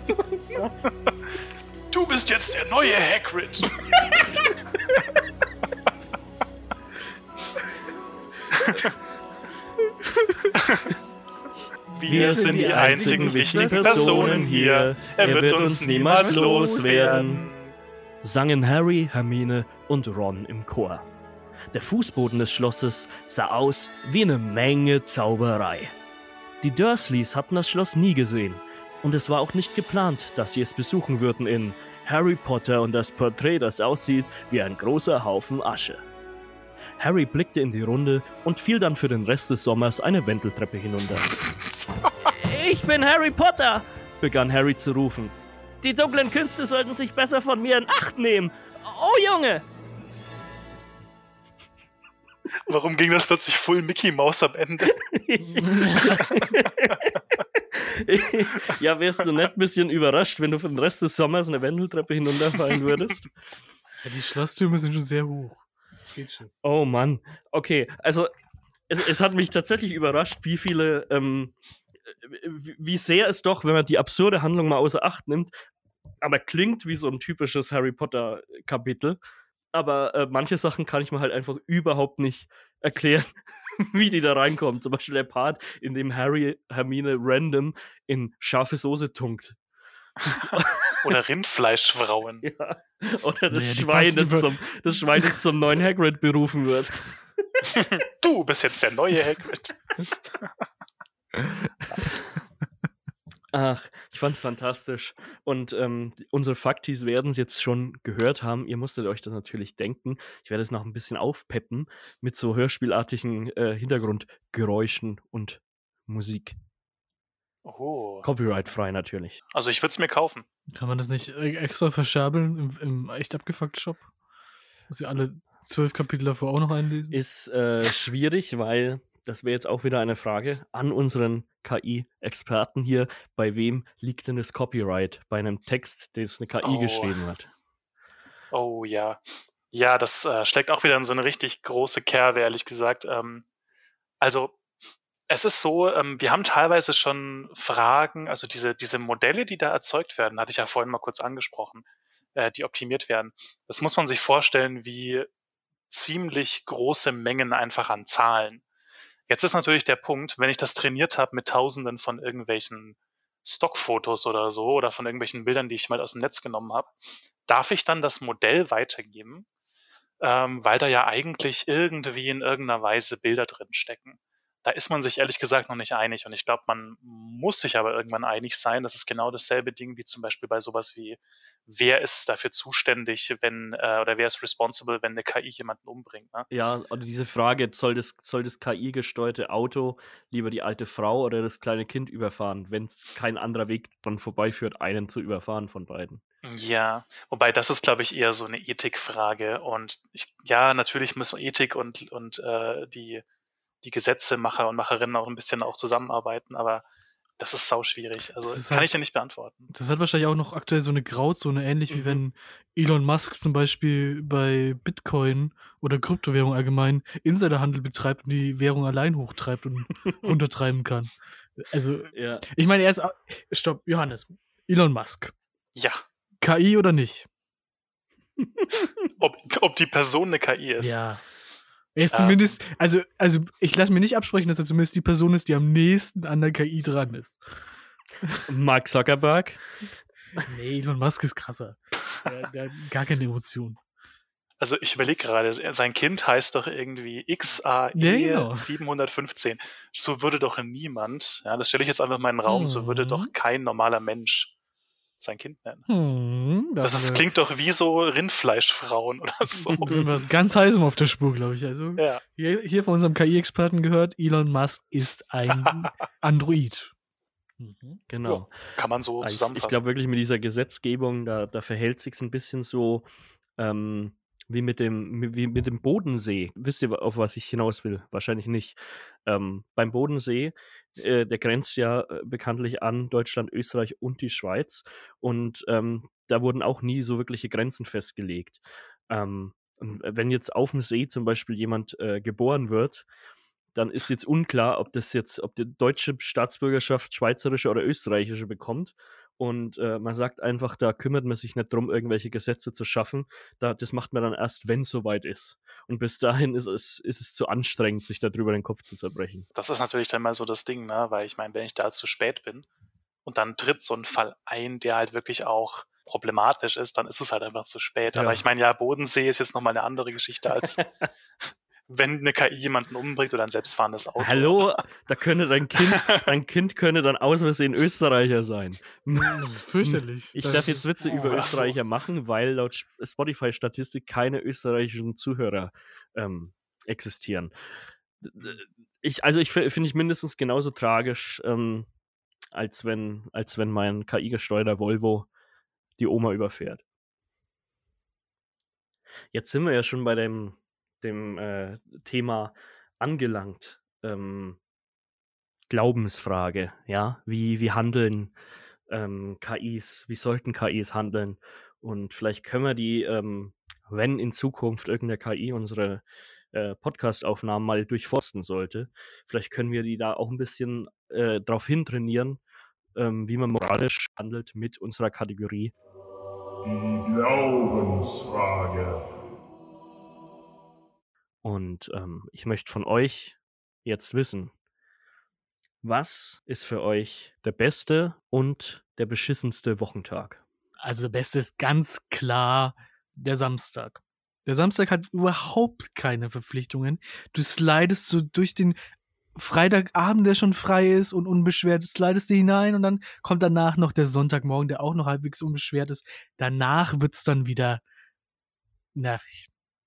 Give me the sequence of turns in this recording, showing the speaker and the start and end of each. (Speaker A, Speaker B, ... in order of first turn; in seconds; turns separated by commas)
Speaker A: 1.9-3.7, Speaker B: 4.1-4.4, Speaker A: 8.6-8.9, Speaker B: 9.8-10.6, Speaker A: 10.6-10.9, Speaker A: 11.9-17.7, Speaker B: 12.1-14.5, Speaker C: 12.1-17.4, Speaker B: 16.1-17.4, Speaker C: 18.2-21.1, Speaker C: 21.7-25.9, Speaker C: 26.6-36.0, Speaker C: 37.0-41.4, Speaker C: 42.2-49.6, Speaker A: 52.7-55.0, Speaker C: 54.9-63.3, Speaker B: 64.0-66.5, Speaker C: 66.6-68.3, Speaker C: 68.9-71.5, Speaker C: 72.1-75.5, Speaker C: 76.2-79.2, Speaker C: 79.7-89.6, Speaker C: 90.3-91.1, Speaker A: 91.0-92.4, Speaker C: 92.4-97.8, Speaker B: 93.5-94.6, Speaker A: 97.7-100.5, Speaker B: 101.3-101.7, Speaker C: 103.5-116.5, Speaker A: 117.6-118.2, Speaker C: 118.2-119.4, Speaker A: 119.5-120.4, Speaker B: 120.7-124.0, Speaker B: 124.9-127.1, Speaker C: 127.1-137.5, Speaker A: 136.6-137.2, Speaker A: 138.5-143.4, Speaker A: 144.2-144.6, Speaker A: 145.3-155.3, Speaker A: 155.9-158.6, Speaker A: 159.3-169.4, Speaker A: 170.2-186.5, Speaker C: 186.5-196.2, Speaker A: 196.4-203.2, Speaker A: 203.8-206.8, Speaker A: 207.4-209.7, Speaker B: 208.4-208.9, Speaker B: 209.7-225.3, Speaker C: 211.9-212.2, Speaker C: 222.1-222.4, Speaker A: 225.7-226.0, Speaker B: 226.4-227.3, Speaker C: 228.4-228.8, Speaker A: 229.2-230.9, Speaker B: 230.8-231.2, Speaker B: 231.9-237.4, Speaker A: 232.1-232.4, Speaker C: 238.5-239.6, Speaker B: 240.4-243.8, Speaker A: 244.6-254.5, Speaker B: 247.9-248.7, Speaker B: 252.5-253.3, Speaker A: 255.2-255.9, Speaker B: 255.9-257.2, Speaker A: 256.8-260.0, Speaker B: 259.8-266.9, Speaker A: 262.0-262.2, Speaker B: 267.6-268.0, Speaker C: 268.1-268.6, Speaker A: 268.2-269.8, Speaker C: 269.2-293.1, Speaker C: 293.7-309.4, Speaker A: 309.5-312.6, Speaker A: 313.2-320.8, Speaker C: 318.1-318.4, Speaker A: 321.9-324.8, Speaker C: 324.2-337.5, Speaker B: 329.2-331.5, Speaker A: 331.0-331.7, Speaker C: 338.2-341.9, Speaker C: 342.5-345.3, Speaker C: 346.0-346.8, Speaker C: 349.3-354.6, Speaker C: 355.7-358.3, Speaker C: 358.9-372.4, Speaker C: 372.9-375.7, Speaker D: 376.6-379.1, Speaker C: 381.4-384.5, Speaker C: 385.8-390.4, Speaker B: 390.8-398.8, Speaker B: 399.3-407.8, Speaker B: 408.9-409.5